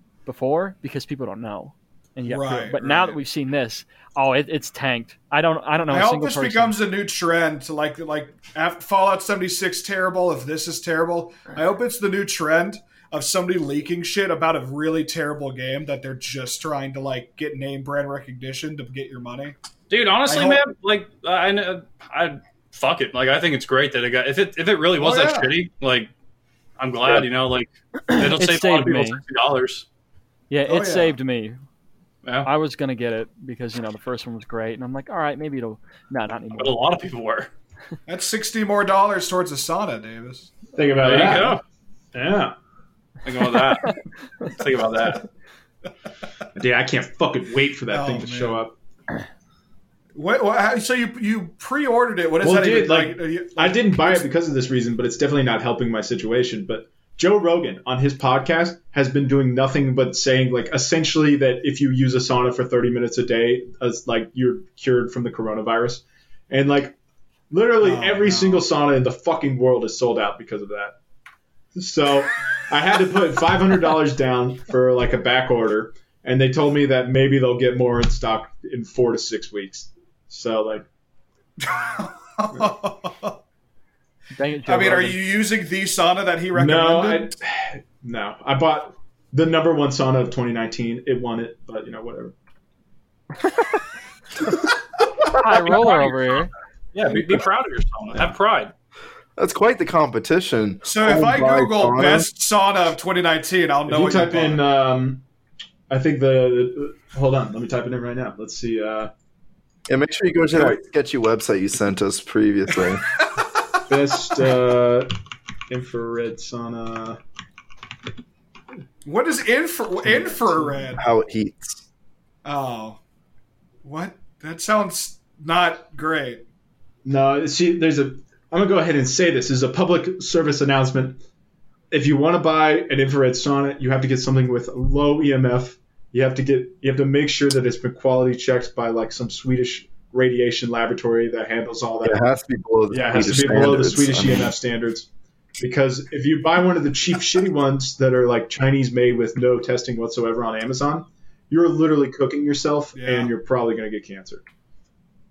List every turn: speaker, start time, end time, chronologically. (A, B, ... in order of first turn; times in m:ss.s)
0:00.3-0:06.7 A
0:02.3-0:03.2 B
0:05.9-0:19.6 B
0:19.9-0:26.1 C
0:20.3-0:20.6 B
0:25.0-0:25.5 B
0:26.8-0:29.9 C
0:28.1-0:29.2 A
0:30.5-0:31.6 A
0:30.7-0:31.2 B
0:32.2-0:32.5 C
0:32.4-0:36.8 A
0:36.6-0:37.5 C
0:38.1-0:40.6 B
0:40.7-0:41.6 D
0:41.0-0:41.6 C
0:42.1-0:42.6 D
0:43.2-0:45.2 C
0:46.6-0:48.7 D
0:47.9-0:48.6 B
0:50.1-0:54.2 B
0:52.4-1:07.0 D
1:07.5-1:11.0 D
1:07.8-1:08.6 B
1:11.8-1:20.8 D
1:21.6-1:23.4 B
1:24.3-1:25.2 A
1:24.7-1:27.3 B
1:26.5-1:32.3 D
1:35.3-1:36.5 A
1:35.6-1:36.4 C
1:36.9-1:38.7 C
1:39.4-1:42.3 E
1:40.9-1:44.6 B
1:43.9-1:45.2 D
1:45.9-1:49.1 D
1:49.9-1:53.1 E
1:53.9-1:55.1 D
1:55.7-1:57.2 D
1:59.0-2:01.0 B
2:01.0-2:01.8 E
2:02.4-2:03.0 B
2:03.8-2:06.4 B
2:07.0-2:11.2 D
2:11.9-2:22.2 D
2:22.0-2:24.5 E
2:22.9-2:34.4 D
2:33.0-2:33.3 B